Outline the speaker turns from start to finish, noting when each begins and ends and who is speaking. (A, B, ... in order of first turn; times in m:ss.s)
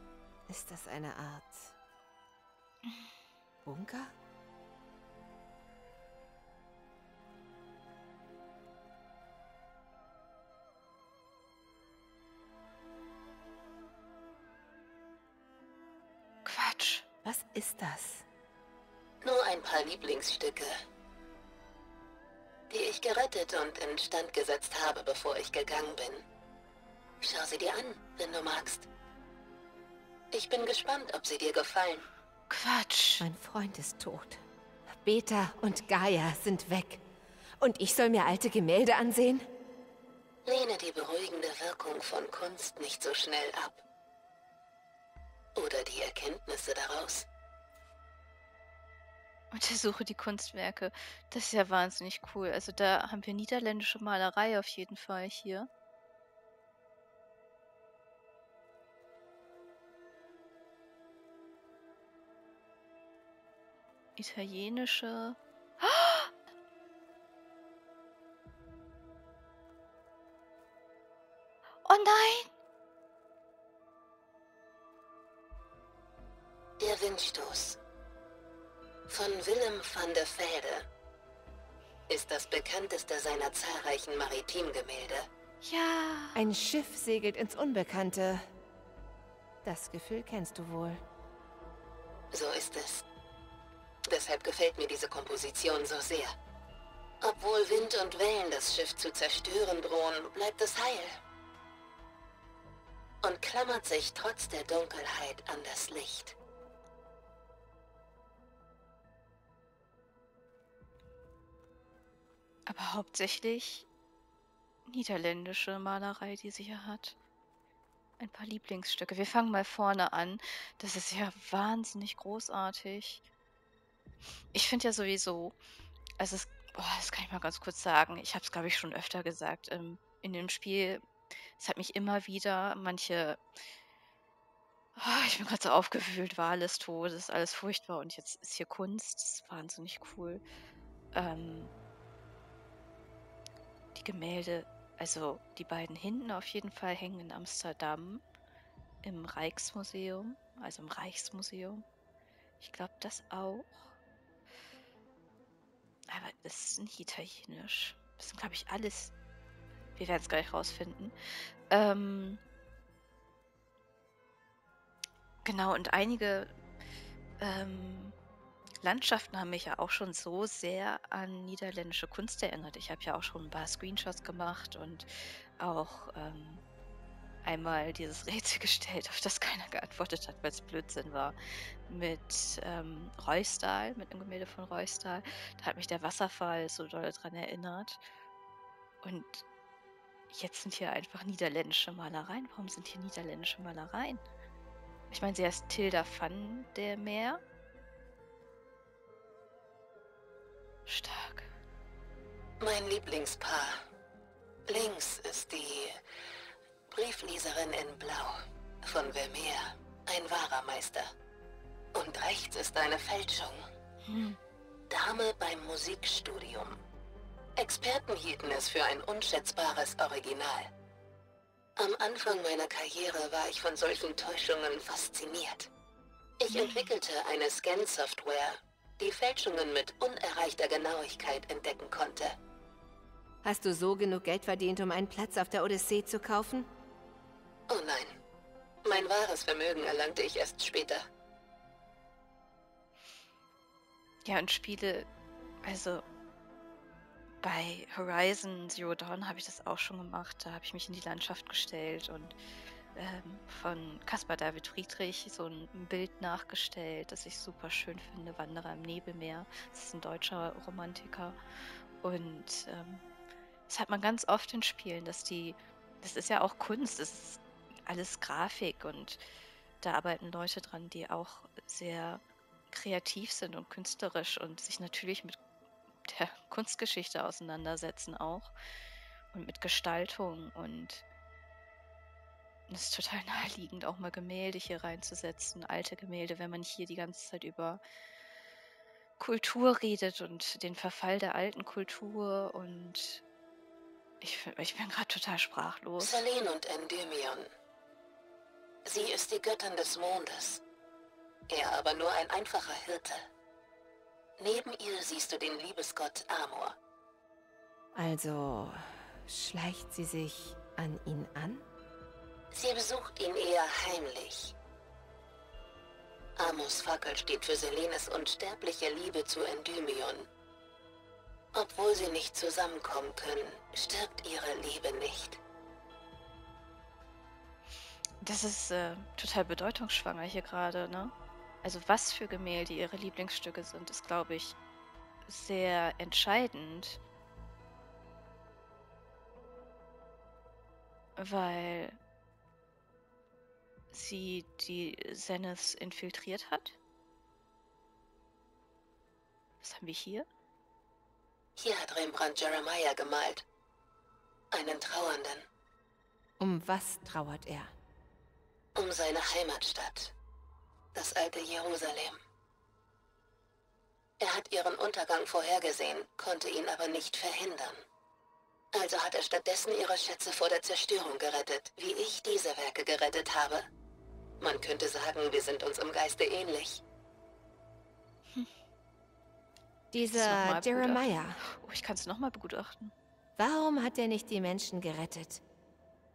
0:00.5-0:01.7 A
0:03.6-0:04.2 A
0:16.4-0:17.0 B
0:17.2-0:18.3 A
0:19.2-0:20.8 C
0:22.7-0:26.2 C
0:27.2-0:28.9 C
0:30.3-0:32.1 C
0:32.5-0:33.3 B
0:33.2-0:34.4 A
0:35.0-0:37.0 A
0:37.6-0:39.5 A
0:40.4-0:43.8 C
0:45.6-0:47.3 C
0:49.5-0:55.7 B
1:04.2-1:06.3 B
1:11.8-1:12.5 B
1:16.8-1:17.8 C
1:19.1-1:20.9 C
1:22.1-1:25.3 C
1:25.6-1:26.5 B
1:26.4-1:28.5 A
1:29.6-1:31.0 A
1:32.3-1:33.1 C
1:34.1-1:36.3 C
1:37.2-1:41.2 C
1:43.2-1:46.4 C
1:52.7-1:53.9 B
1:54.9-1:57.2 B
1:58.2-2:03.2 B
2:04.5-2:05.6 B
2:06.2-2:11.0 B
2:11.6-2:13.4 B
2:15.0-2:20.4 B
2:21.1-2:21.7 B
2:24.0-2:28.2 B
2:29.0-2:31.8 B
2:32.6-2:33.9 B
2:36.1-2:39.1 B
2:40.0-2:41.1 B
2:41.7-2:42.4 B
2:45.4-2:46.6 B
2:47.4-2:48.2 B
2:48.8-2:55.1 B
2:55.6-2:56.6 B
2:57.4-3:01.4 B
3:01.9-3:08.0 B
3:09.0-3:09.4 B
3:10.3-3:14.2 B
3:15.1-3:17.4 B
3:20.9-3:21.5 B
3:22.6-3:23.8 C
3:24.7-3:26.0 C
3:26.9-3:31.1 C
3:32.0-3:33.6 C
3:34.0-3:34.4 B
3:34.9-3:36.8 C
3:37.6-3:40.7 C
3:41.8-3:45.7 C
3:46.4-3:52.4 C
3:46.5-3:46.9 B
3:53.4-3:56.7 A
3:57.7-3:58.2 C
3:58.8-4:01.0 C
4:04.2-4:05.1 B
4:05.6-4:06.0 B
4:07.4-4:12.4 B
4:13.0-4:21.4 B
4:22.0-4:23.0 B
4:23.7-4:29.2 B
4:29.8-4:35.4 B
4:36.1-4:38.5 B
4:39.3-4:41.0 B
4:42.7-4:47.8 B
4:49.2-4:53.2 B
4:54.2-4:56.2 B
4:56.0-4:57.5 C
4:58.8-5:00.6 C
5:01.5-5:03.3 C
5:04.4-5:06.8 C
5:08.0-5:11.7 A
5:12.5-5:14.5 C
5:16.4-5:20.3 C
5:21.5-5:25.4 C
5:28.2-5:34.6 B
5:35.3-5:37.0 B
5:41.2-5:42.0 B
5:43.9-5:46.8 B
5:49.6-5:50.3 B
5:51.6-5:53.4 C
5:54.5-5:55.4 C
5:56.4-5:57.7 A
5:58.8-6:00.1 C
6:00.9-6:02.2 C
6:04.2-6:07.8 C
6:08.7-6:13.7 C
6:14.4-6:16.8 C
6:19.9-6:21.4 A
6:20.0-6:22.9 B
6:23.4-6:25.4 A